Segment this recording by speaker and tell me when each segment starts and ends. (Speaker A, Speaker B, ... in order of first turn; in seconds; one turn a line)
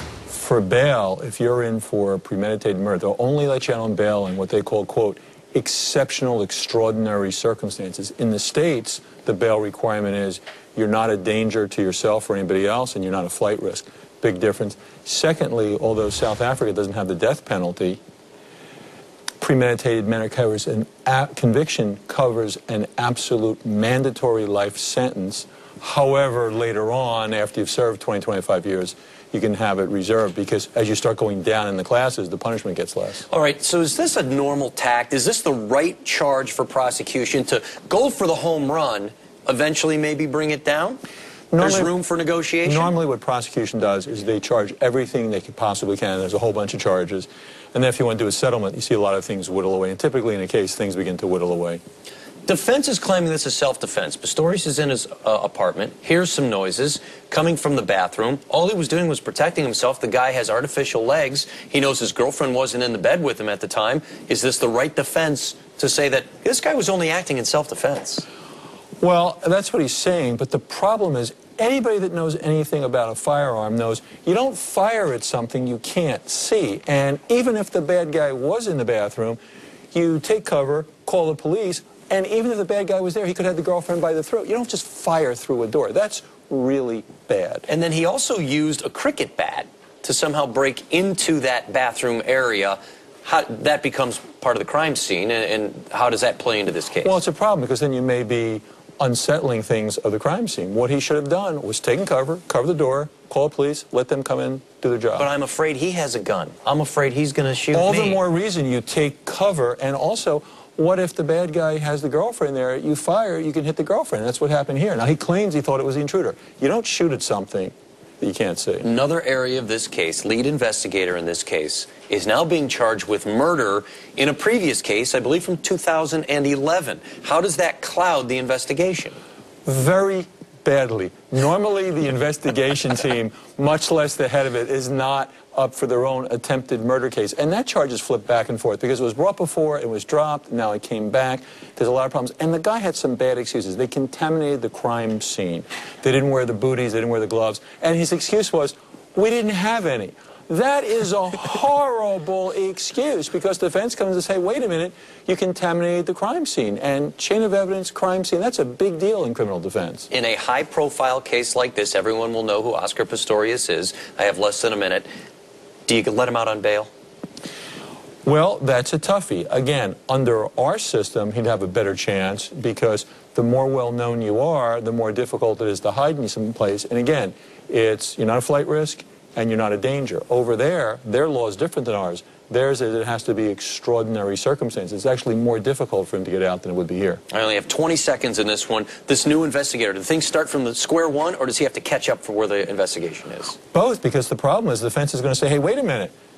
Speaker A: 0.3-18.0
Speaker A: 19.4-33.2
Speaker B: 33.3-41.0
Speaker A: 41.5-41.9
Speaker B: 41.6-42.9
Speaker A: 42.6-51.8
Speaker B: 52.5-68.2
Speaker A: 69.0-79.4
Speaker A: 79.9-87.7
Speaker B: 87.7-97.2
Speaker A: 97.0-105.3
Speaker B: 105.2-108.2
Speaker A: 107.7-118.9
Speaker B: 118.8-129.2
Speaker A: 129.7-160.1
Speaker B: 160.1-165.1
Speaker B: 165.9-166.9
Speaker A: 168.2-187.2
Speaker B: 187.3-193.6
Speaker A: 193.7-196.1